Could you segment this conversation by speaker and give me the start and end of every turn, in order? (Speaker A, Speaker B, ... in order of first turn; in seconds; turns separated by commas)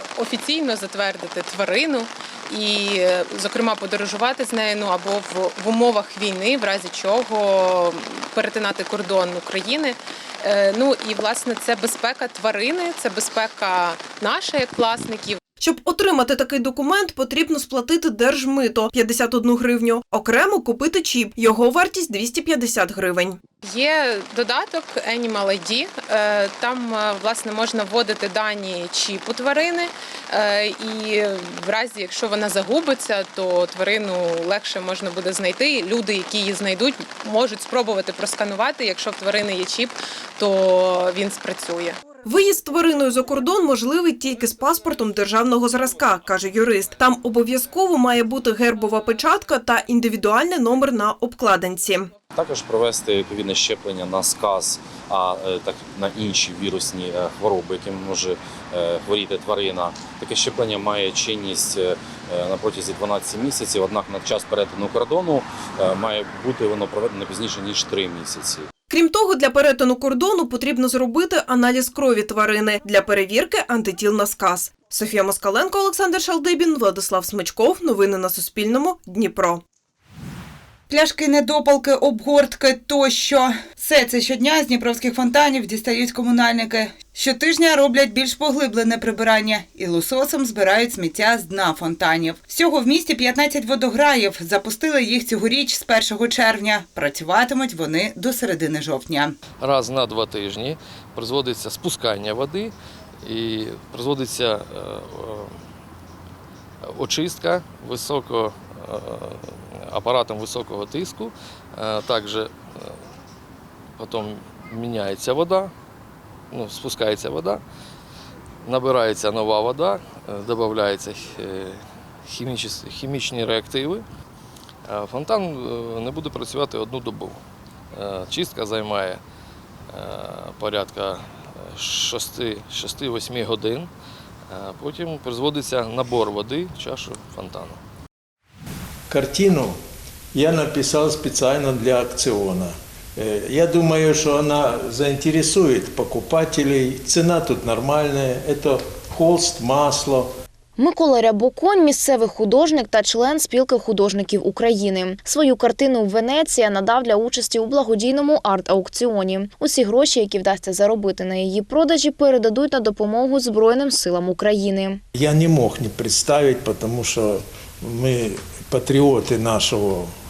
Speaker A: 0.2-15.4, Speaker B: 15.6-23.4, Speaker A: 23.6-42.1, Speaker B: 42.1-52.1, Speaker C: 52.4-68.7, Speaker B: 68.9-79.6, Speaker D: 80.9-99.3, Speaker E: 99.6-105.6, Speaker E: 106.8-113.0, Speaker E: 114.0-115.7, Speaker E: 116.5-117.6, Speaker E: 118.6-124.1, Speaker E: 124.9-127.4, Speaker E: 127.9-129.2, Speaker E: 129.9-133.9, Speaker E: 134.5-137.8, Speaker F: 139.1-139.8, Speaker F: 140.3-150.3, Speaker G: 150.8-165.0, Speaker F: 165.1-170.1